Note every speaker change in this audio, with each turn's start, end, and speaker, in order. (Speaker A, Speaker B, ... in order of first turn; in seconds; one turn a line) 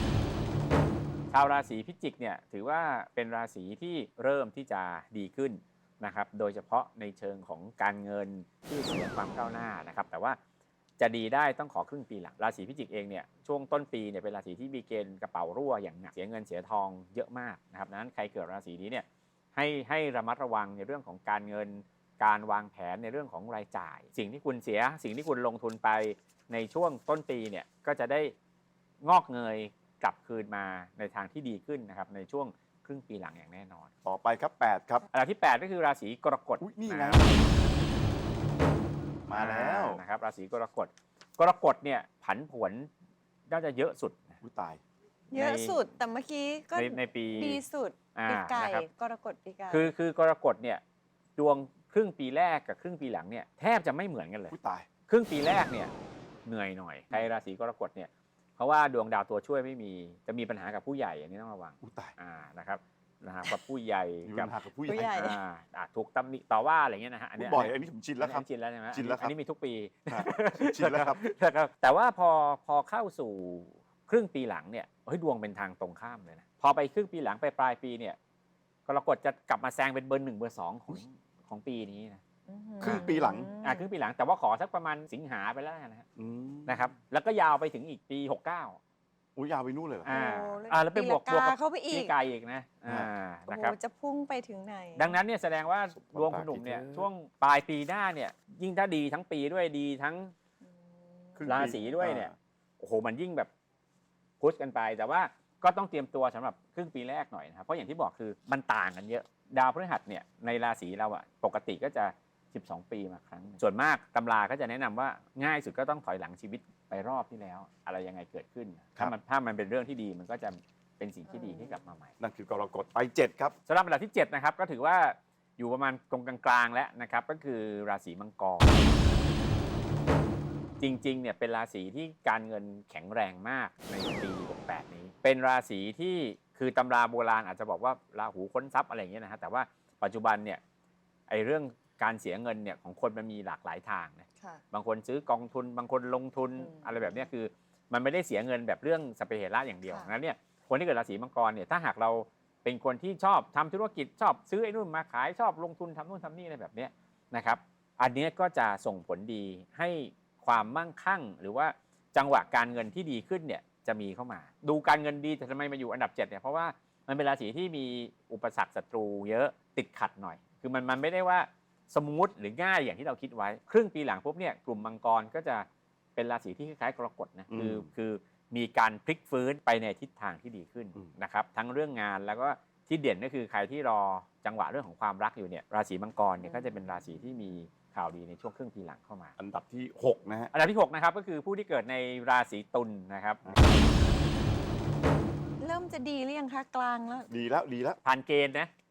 Speaker A: 1.3-10.4
Speaker A: 11.0-28.3
Speaker A: 29.0-33.9
Speaker B: 34.0-35.0
Speaker A: 35.1-37.2
Speaker B: 36.6-37.3
Speaker B: 39.3-40.0
Speaker A: 39.3-42.9
Speaker A: 43.5-44.4
Speaker B: 44.4-44.8
Speaker C: 45.3-49.9
Speaker A: 45.3-45.9
Speaker A: 46.7-47.6
Speaker A: 48.1-48.9
Speaker A: 49.7-50.8
Speaker A: 51.4-54.5
Speaker B: 54.5-54.9
Speaker A: 55.1-55.9
Speaker A: 56.5-78.2
Speaker B: 61.8-62.1
Speaker B: 64.2-65.3
Speaker C: 64.9-65.4
Speaker B: 67.4-69.3
Speaker B: 70.1-71.2
Speaker A: 78.9-82.2
Speaker C: 82.5-83.9
Speaker B: 82.8-83.5
Speaker A: 83.6-86.0
Speaker B: 86.2-86.9
Speaker A: 86.7-88.8
Speaker B: 89.4-90.1
Speaker A: 90.0-93.8
Speaker C: 90.1-92.1
Speaker C: 93.5-95.2
Speaker A: 95.0-100.3
Speaker B: 95.9-97.1
Speaker C: 100.7-101.6
Speaker B: 101.4-102.3
Speaker A: 101.5-103.5
Speaker A: 104.4-122.1
Speaker B: 122.2-123.5
Speaker A: 123.7-128.9
Speaker A: 130.8-140.6
Speaker A: 141.3-189.3
Speaker C: 146.6-147.3
Speaker C: 149.9-150.1
Speaker B: 177.5-177.9
Speaker C: 186.4-186.8
Speaker B: 189.4-190.5
Speaker A: 190.5-193.6
Speaker B: 193.4-193.8
Speaker C: 195.6-197.3
Speaker B: 197.3-198.0
Speaker A: 198.0-198.7